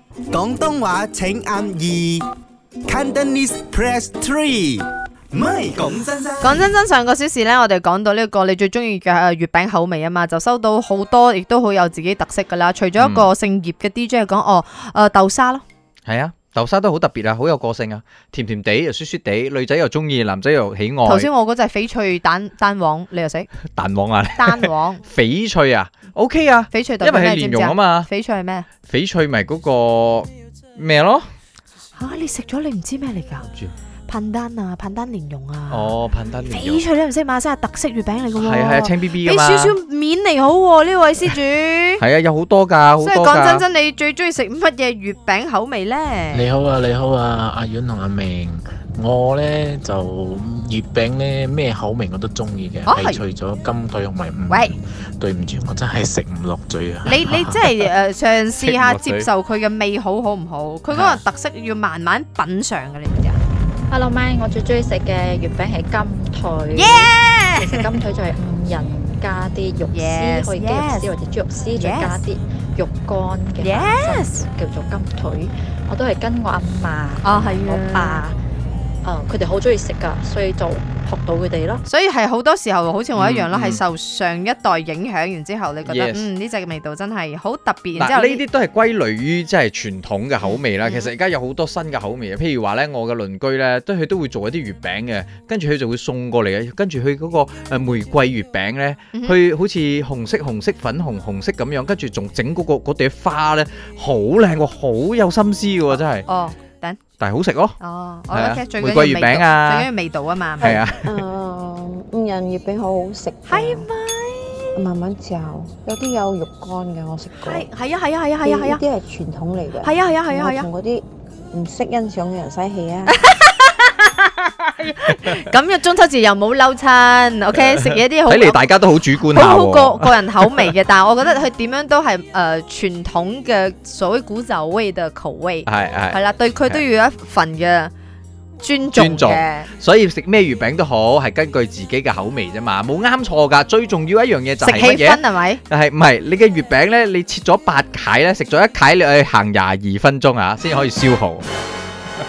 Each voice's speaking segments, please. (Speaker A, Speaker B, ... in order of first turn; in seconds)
Speaker A: 0.3-2.2, 2.9-6.6
Speaker B: 6.4-15.6, 21.1-23.5, 24.4-25.0, 26.7-28.7, 32.0-33.5, 34.1-35.9, 36.5-42.0, 43.0-46.5, 52.9-53.2, 54.5-54.7, 57.0-63.4, 66.7-67.9, 69.9-71.1, 71.8-72.2, 73.6-74.5, 77.2-78.2, 81.9-88.4, 90.4-91.1, 106.3-107.0, 107.8-110.8, 113.5-114.8, 117.4-118.8, 119.8-120.7, 123.1-137.9, 138.6-139.7, 144.6-145.6
Speaker C: 13.0-13.3, 16.1-21.3, 23.7-28.1, 28.9-31.3, 33.4-33.7, 35.7-36.8, 38.4-39.8, 42.0-43.6, 58.6-59.3, 60.9-61.2, 83.2-83.8, 85.9-86.3, 87.9-106.3, 107.2-107.8, 108.3-109.9, 110.6-111.2, 127.7-130.7, 135.7-136.8, 138.9-151.5
Speaker D: 46.3-57.6
Speaker E: 63.9-78.4, 79.0-81.8
Speaker F: 111.0-113.9, 114.7-117.7, 118.4-123.2